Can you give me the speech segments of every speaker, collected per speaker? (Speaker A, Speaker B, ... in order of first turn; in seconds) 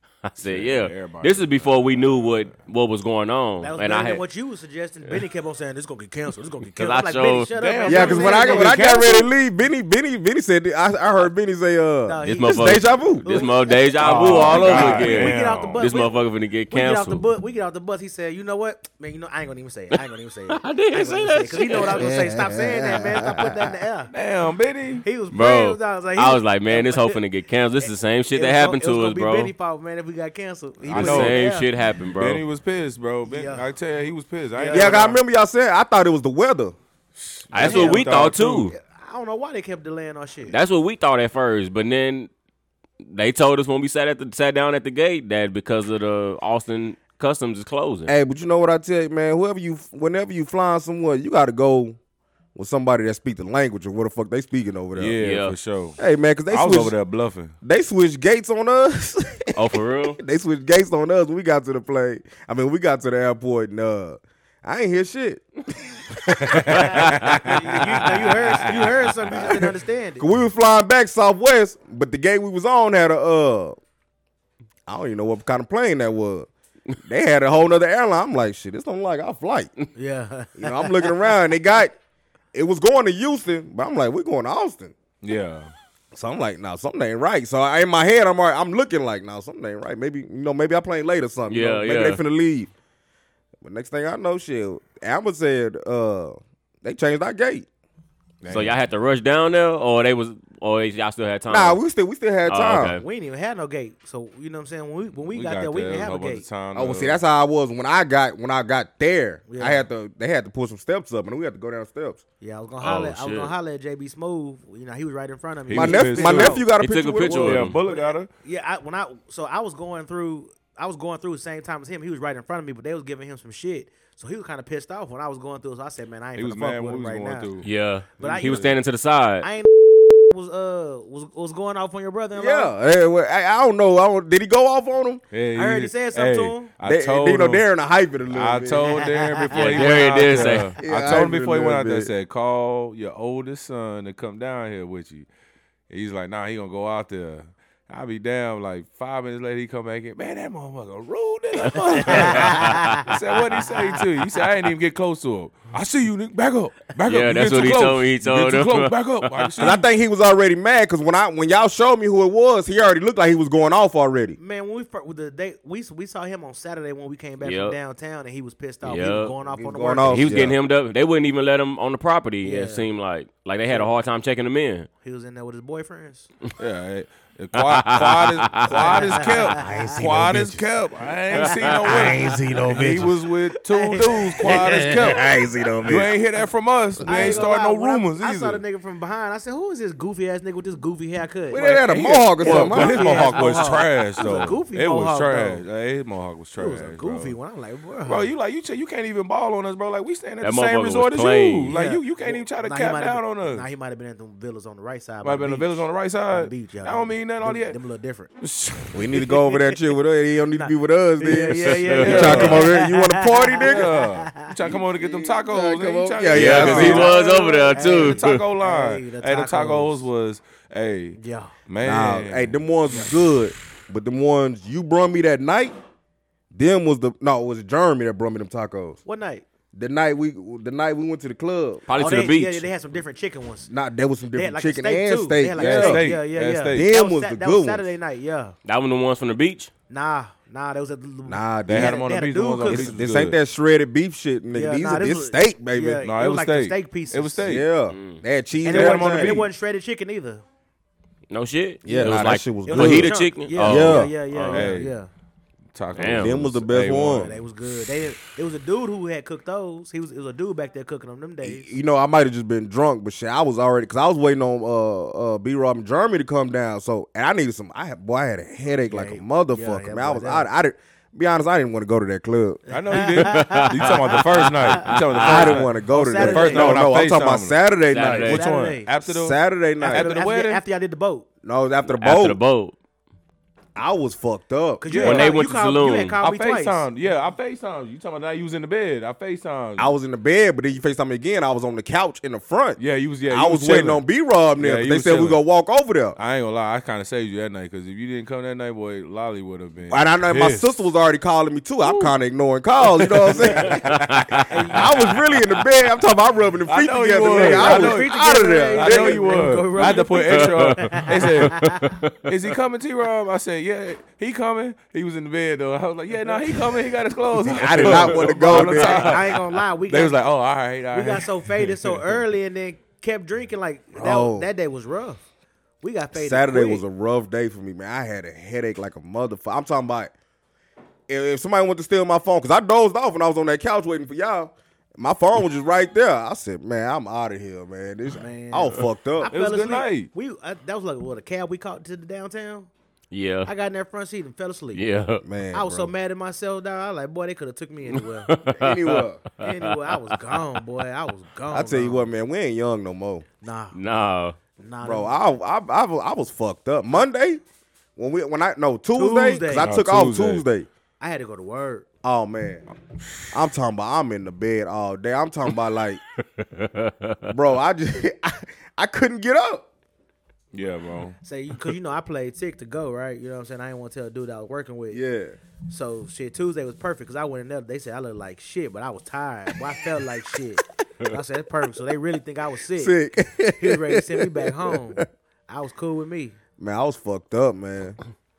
Speaker A: 0.2-4.2, 6.7-7.5, 12.2-17.3, 20.5-22.1, 25.3-29.5, 30.9-32.4, 37.5-38.7, 40.5-42.3, 43.0-48.1, 55.2-55.5, 59.5-60.2, 91.5-92.2, 98.5-101.8, 102.5-103.0, 112.8-113.5, 116.7-117.8, 127.6-129.4, 139.5-140.7, 151.9-152.9, 157.1-159.7, 167.4-167.8, 168.8-169.3, 170.1-174.9, 177.6-179.3, 200.4-201.7, 211.8-212.6, 216.3-218.4, 231.9-232.7, 238.6-239.7, 247.9-248.2, 251.3-254.8, 255.9-256.4, 273.2-275.5, 277.9-278.4, 281.9-282.7, 285.0-286.2, 303.9-304.4, 310.3-312.3, 343.1-343.5, 344.7-345.2, 348.3-350.4, 353.7-354.4, 366.4-367.3
Speaker B: 0.4-2.5, 7.6-9.3, 14.0-15.8, 24.1-25.1, 30.9-31.4, 32.2-35.2, 37.2-38.7, 55.0-57.5, 66.2-68.9, 85.2-85.7, 98.4-98.8, 105.3-107.2, 115.7-116.6, 117.2-118.3, 126.3-127.7, 128.2-128.7, 135.3-137.6, 138.3-145.3, 145.9-159.8, 176.6-185.3, 185.8-188.6, 191.6-197.3, 198.0-203.7, 205.2-207.8, 208.4-209.0, 212.0-212.6, 213.6-217.2, 217.8-222.6, 235.6-236.8, 241.7-243.3, 246.0-247.6, 248.7-249.5, 254.5-254.9, 255.7-257.4, 272.7-279.4, 279.9-280.6, 284.9-285.3, 286.2-289.9, 292.8-294.0, 294.6-295.4, 296.1-300.6, 301.8-302.1, 302.8-305.2, 306.7-308.1, 308.7-311.7, 312.2-322.2, 339.3-340.1, 359.5-360.4, 370.5-371.1
Speaker C: 3.6-8.8, 12.1-16.1, 16.7-24.1, 25.0-27.2, 27.8-31.7, 33.2-33.6, 34.5-35.0, 37.5-40.5, 66.7-70.3, 79.9-81.3, 103.0-106.4, 109.5-109.9, 112.4-116.7, 117.8-127.5, 128.2-128.8, 129.4-132.7, 135.5-136.7, 138.9-139.8, 151.9-153.1, 164.4-170.5, 172.4-172.9, 175.0-176.3, 178.8-180.1, 181.3-185.3, 187.0-195.6, 196.6-198.3, 201.7-208.3, 209.3-209.8, 210.5-214.5, 216.6-220.1, 221.2-221.5, 229.1-229.4, 232.0-233.7, 234.3-238.5, 239.9-242.9, 244.5-247.4, 248.6-250.4, 251.9-255.1, 257.2-261.7, 268.9-270.5, 272.7-276.8, 278.3-278.9, 279.8-281.3, 284.8-286.9, 304.5-305.0, 307.2-311.9, 317.9-320.2, 320.9-325.2, 325.8-326.8, 338.1-342.7, 343.4-344.8, 345.5-348.3, 349.4-352.1, 353.4-353.8, 354.6-355.2, 358.9-359.7, 361.0-361.9, 371.2-375.0, 375.7-382.9, 383.6-386.4
Speaker D: 7.8-13.3, 21.9-23.5, 34.7-36.7, 48.1-52.0, 52.5-55.2, 56.0-57.0, 57.6-66.9, 69.3-73.8, 74.9-76.5, 77.0-79.7, 80.6-81.9, 82.5-84.9, 86.1-92.7, 93.6-97.7, 101.5-103.0, 106.7-112.2, 115.7-117.7, 132.3-135.2, 136.8-139.0, 140.8-142.1, 159.6-164.4, 169.5-170.6, 179.6-180.7, 181.9-183.1, 184.4-186.1, 187.0-187.5, 191.5-193.4, 208.9-213.9, 214.6-217.1, 221.8-225.7, 226.5-229.0, 229.7-231.8, 233.7-236.1, 236.7-237.9, 241.2-242.0, 242.7-246.0, 247.4-249.4, 251.8-254.1, 256.1-257.3, 261.4-272.6, 275.2-278.4, 279.0-280.1, 281.4-282.4, 283.8-284.8, 289.8-296.2, 299.9-309.2, 317.4-319.2, 323.9-324.5, 326.1-330.1, 331.1-339.3, 345.2-345.9, 348.5-349.2, 351.5-353.2, 354.8-357.4, 357.9-360.7, 362.0-362.6, 363.3-366.0, 367.3-369.6, 374.9-375.4, 382.8-385.1, 386.6-388.0